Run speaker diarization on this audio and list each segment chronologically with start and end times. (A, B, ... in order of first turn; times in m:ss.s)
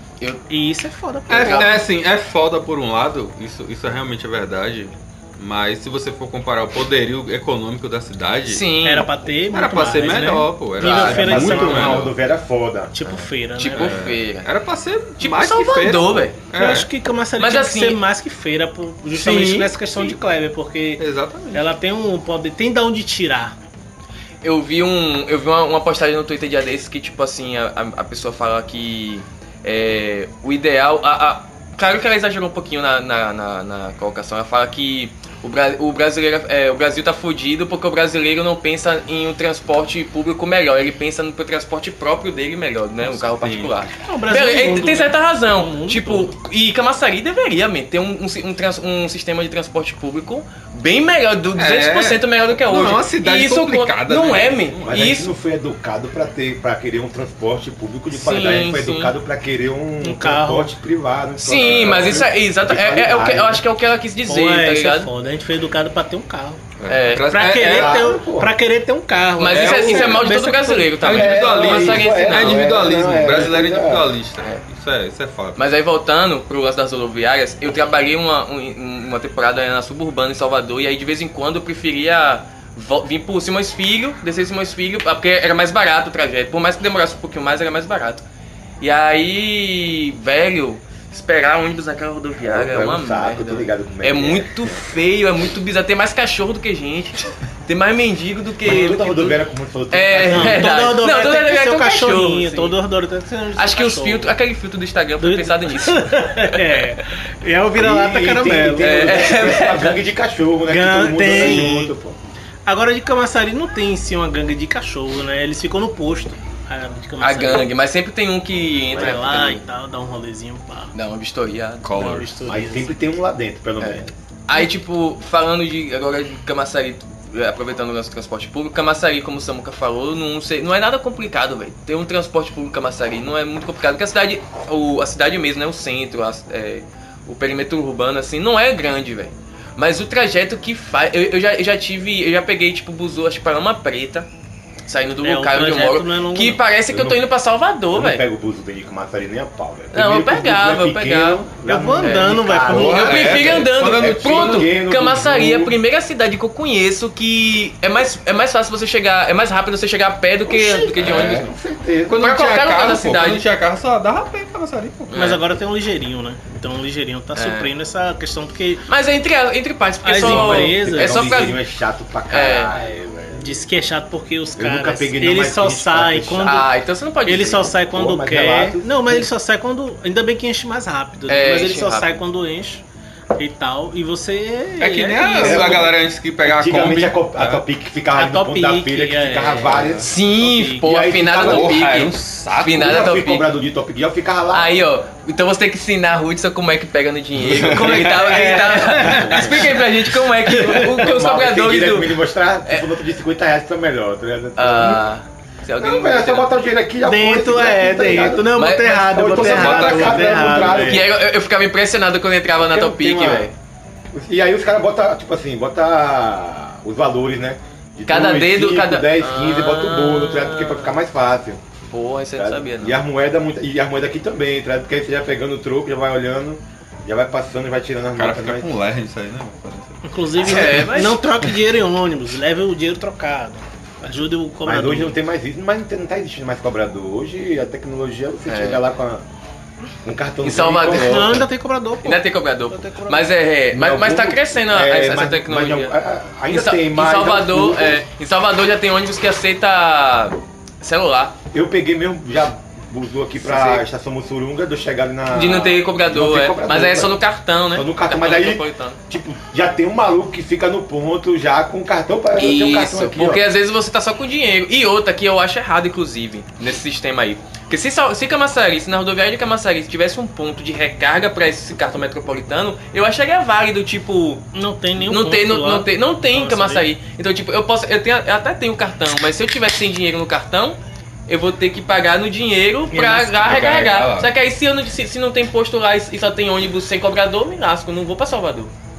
0:00.5-0:01.8 A
0:01.3-0:08.7 B
0:01.3-0:01.8 C
0:08.5-0:09.1 C
0:08.8-0:12.0 A
0:09.5-0:12.1 B
0:10.8-0:11.2 C
0:11.0-0:12.9 D
0:12.9-0:14.0 A
0:13.0-0:14.5 C
0:13.8-0:16.9 B
0:15.2-0:16.4 C
0:16.5-0:23.5 A
0:17.4-0:18.0 C
0:19.1-0:20.1 B
0:21.0-0:21.7 B
0:24.4-0:55.3 C
0:43.0-0:43.7 B
0:44.0-0:46.3 A
0:51.6-0:55.0 B
0:54.8-1:03.6 D
0:58.1-0:59.1 C
1:00.0-1:00.7 A
1:01.4-1:05.1 C
1:01.6-1:02.2 B
1:04.2-1:06.6 A
1:06.8-1:08.1 B
1:06.9-1:07.3 C
1:07.3-1:11.0 A
1:07.5-1:08.5 D
1:09.4-1:12.7 C
1:09.4-1:10.3 B
1:11.0-1:15.6 B
1:11.0-1:14.1 D
1:15.6-1:28.2 C
1:28.8-1:39.4 C
1:32.4-1:34.8 D
1:38.6-1:40.7 D
1:39.9-1:42.8 C
1:40.2-1:44.3 A
1:43.6-1:47.1 C
1:45.2-1:49.0 A
1:47.7-1:52.2 D
1:48.8-1:50.0 C
1:50.7-1:51.9 A
1:52.6-1:57.7 A
1:57.2-1:59.6 C
1:58.9-2:00.9 A
2:00.9-2:02.1 C
2:01.8-2:02.3 B
2:01.9-2:02.9 A
2:02.5-2:04.6 D
2:03.8-2:24.3 C
2:24.9-2:28.2 C
2:25.2-2:26.6 A
2:26.9-2:27.2 D
2:27.9-2:35.8 D
2:29.9-2:31.4 C
2:31.6-2:33.3 A
2:32.0-2:41.5 C
2:32.7-2:34.7 B
2:40.4-2:42.2 D
2:41.0-2:41.5 B
2:42.1-2:45.3 B
2:42.1-2:43.4 C
2:45.1-2:45.4 C
2:45.1-2:48.8 A
2:47.3-2:47.7 C
2:48.9-2:51.6 C
2:50.0-2:51.5 A
2:50.2-2:53.6 D
2:52.3-2:52.7 C
2:53.3-2:56.7 A
2:54.6-2:56.6 D
2:56.4-2:57.7 C
2:57.2-3:02.8 A
2:57.9-2:59.3 D
3:01.3-3:02.2 C
3:03.4-3:05.9 A
3:04.8-3:07.6 B
3:05.4-3:11.9 D
3:08.1-3:10.8 A
3:09.7-3:10.1 B
3:10.0-3:13.5 C
3:11.3-3:13.2 B
3:12.7-3:14.7 D
3:14.5-3:22.9 C
3:17.3-3:18.4 B
3:17.6-3:19.7 A
3:20.4-3:21.0 A
3:20.8-3:25.1 D
3:24.6-3:26.5 C
3:25.8-3:31.1 D
3:27.0-3:31.0 A
3:28.5-3:29.9 C
3:29.4-3:31.0 B
3:30.6-3:33.5 C
3:32.6-3:33.5 D
3:34.1-3:41.6 D
3:38.1-3:41.0 C
3:41.9-3:43.0 C
3:42.3-3:48.7 D
3:48.2-3:50.8 B
3:50.0-3:55.2 A
3:50.4-3:51.2 C
3:54.6-3:59.2 D
3:58.5-3:58.8 C
4:00.0-4:01.4 D
4:00.4-4:01.4 C
4:00.9-4:03.3 A
4:02.0-4:05.9 C
4:03.7-4:08.0 D
4:06.5-4:11.3 C
4:11.5-4:17.2 D
4:13.4-4:13.8 C
4:15.3-4:19.0 C
4:17.7-4:23.4 D
4:22.4-4:34.4 C
4:34.5-4:36.8 A
4:35.0-4:40.8 C
4:41.3-4:48.7 C
4:42.9-4:43.4 A
4:43.2-4:44.3 B